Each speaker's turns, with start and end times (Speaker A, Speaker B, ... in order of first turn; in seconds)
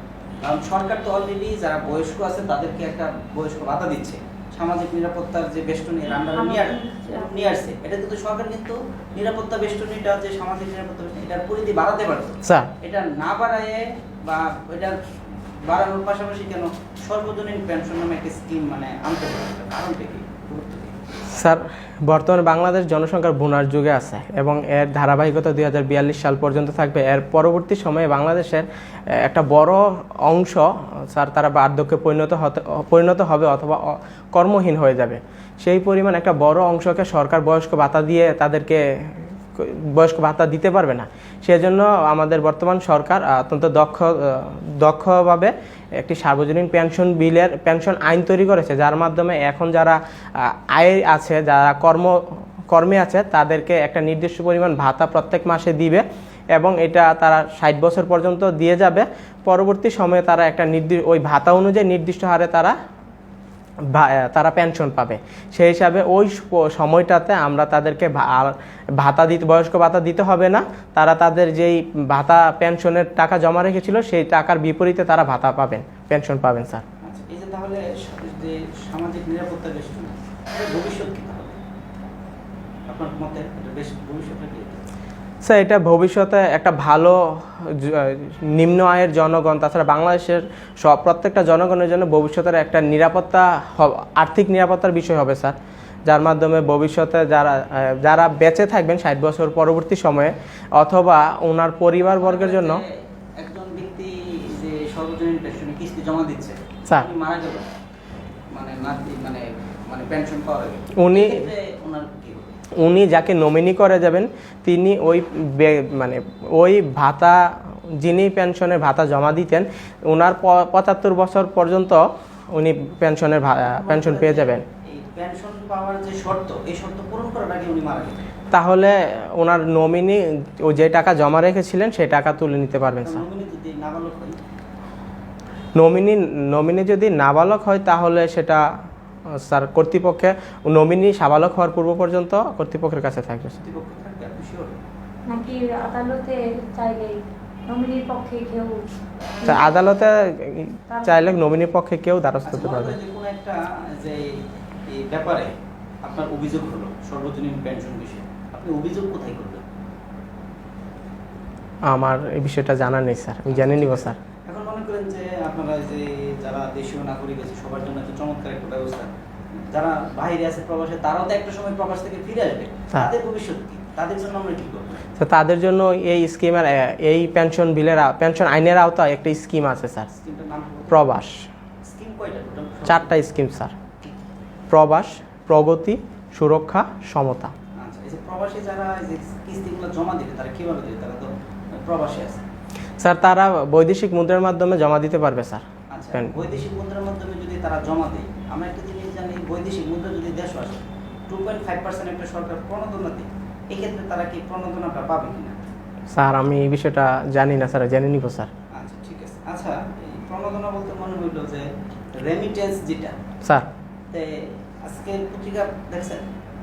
Speaker A: 0.4-15.0, 15.6-21.2, 77.0-81.6, 82.9-84.8, 102.1-107.7, 108.5-112.7, 123.8-128.2, 133.0-134.4, 143.6-144.7, 152.5-155.5, 156.0-159.6, 163.5-175.1, 180.2-181.2, 181.8-183.2, 187.8-192.4, 195.9-205.6, 208.7-213.2, 214.1-216.3
Speaker B: 6.1-7.5, 145.3-148.8, 149.4-149.8, 150.9-151.4
Speaker C: 12.4-12.7, 21.3-52.2, 52.7-62.8, 63.9-76.8, 85.4-102.8, 110.9-111.5, 112.8-124.6, 128.5-133.2, 135.8-138.6, 139.4-143.6, 149.4-152.9, 161.9-164.2, 175.2-180.1, 180.9-181.5, 182.8-183.7, 184.7-187.5, 193.0-196.3, 206.1-208.5